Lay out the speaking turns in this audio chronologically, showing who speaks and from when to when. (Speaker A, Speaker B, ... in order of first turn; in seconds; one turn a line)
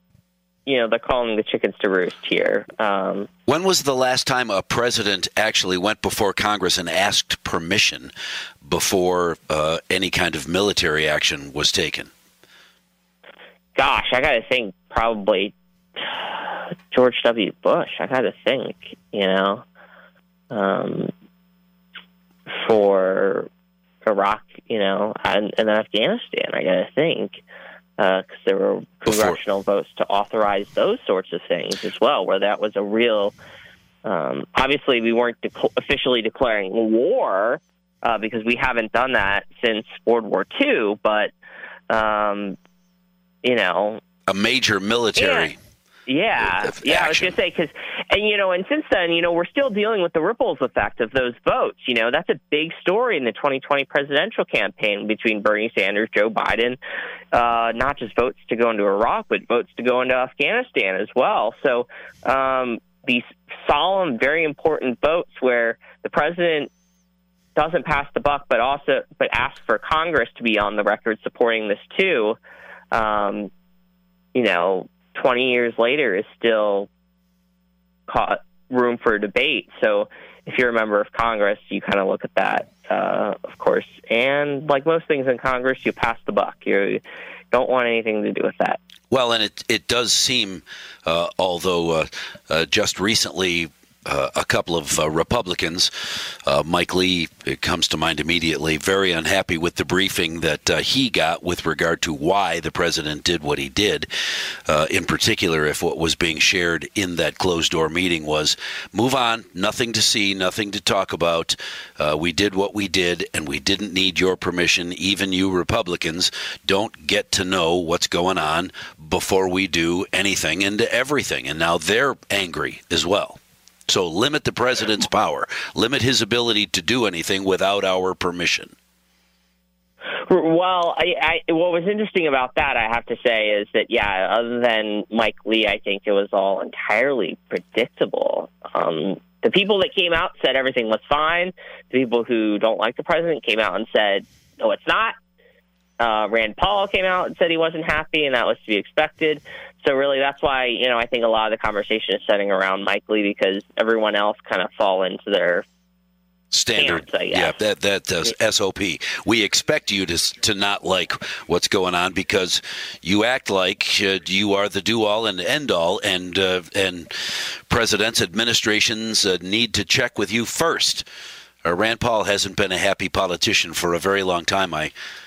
Speaker A: 0.7-3.3
Speaker B: 3.5-8.1
Speaker B: 8.6-12.1
Speaker A: 13.8-19.6
Speaker A: 20.5-21.1
Speaker A: 22.5-23.5
Speaker A: 24.0-27.4
Speaker A: 28.0-33.3
Speaker B: 29.1-29.4
Speaker A: 34.0-41.3
Speaker A: 41.9-42.6
Speaker A: 43.4-44.0
Speaker B: 44.3-45.6
Speaker A: 45.2-45.5
Speaker A: 46.1-56.8
Speaker B: 46.4-47.3
Speaker A: 57.3-66.7
Speaker A: 67.6-72.4
Speaker A: 72.9-73.5
Speaker A: 74.3-76.9
Speaker A: 78.1-87.0
Speaker A: 87.5-88.8
Speaker B: 89.1-95.9
Speaker B: 96.5-104.1
Speaker B: 104.7-128.7
Speaker A: 130.3-145.2
Speaker A: 146.0-155.7
Speaker B: 156.5-171.1
Speaker A: 156.8-157.5
Speaker B: 171.6-174.9